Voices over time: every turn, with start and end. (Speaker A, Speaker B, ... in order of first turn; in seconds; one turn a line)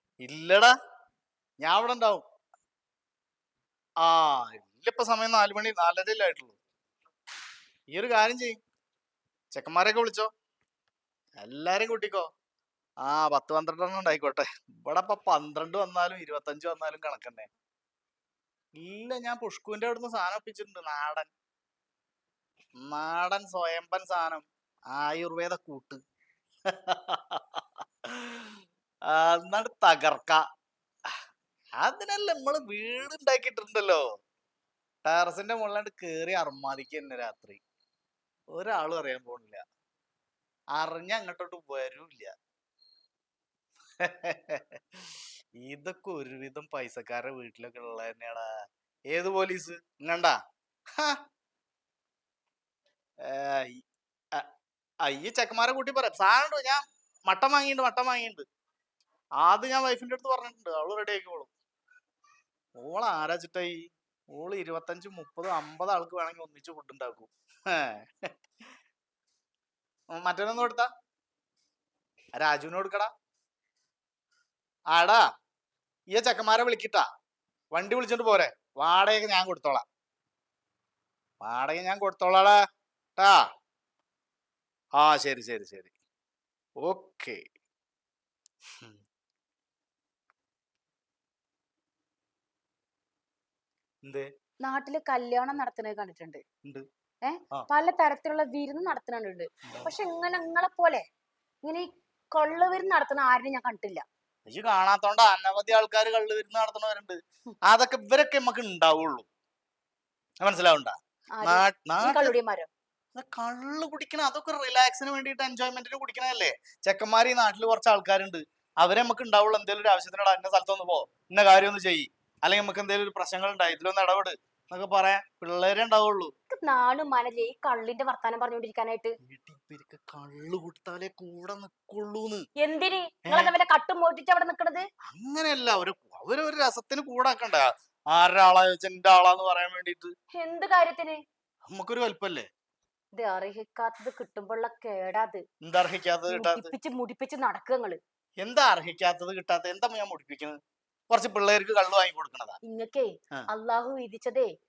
Speaker A: 0.2-0.7
Speaker A: 1.6-2.2
Speaker A: 4.0-6.6
Speaker A: 7.9-8.6
Speaker A: 9.5-10.3
Speaker A: 11.4-12.3
Speaker A: 13.0-17.5
Speaker A: 18.7-21.3
Speaker A: 22.8-26.0
Speaker A: 26.7-28.5
Speaker A: 29.1-30.4
Speaker A: 31.8-34.0
Speaker A: 35.0-37.6
Speaker A: 38.5-39.6
Speaker A: 40.8-42.3
Speaker A: 44.0-45.0
Speaker A: 45.6-48.5
Speaker A: 49.1-50.4
Speaker A: 53.2-53.8
Speaker A: 55.1-58.5
Speaker A: 59.4-61.5
Speaker A: 62.8-68.3
Speaker A: 70.1-70.9
Speaker A: 72.4-73.1
Speaker A: 74.9-75.2
Speaker A: 76.1-77.0
Speaker A: 77.7-79.8
Speaker A: 81.4-82.5
Speaker A: 85.0-85.9
Speaker A: 86.8-87.4
Speaker A: 94.0-94.3
Speaker B: 94.6-96.4
Speaker B: 97.2-101.0
Speaker B: 101.6-104.0
Speaker A: 104.5-109.2
Speaker A: 110.4-112.3
Speaker B: 111.3-112.7
Speaker A: 113.1-126.3
Speaker B: 126.5-129.2
Speaker A: 129.2-132.4
Speaker B: 132.6-134.8
Speaker A: 133.3-133.5
Speaker A: 135.1-140.1
Speaker B: 140.3-141.2
Speaker A: 141.7-142.5
Speaker B: 143.1-145.4
Speaker A: 145.6-146.7
Speaker B: 146.3-148.0
Speaker A: 148.4-150.6
Speaker A: 151.1-152.6
Speaker B: 152.6-154.5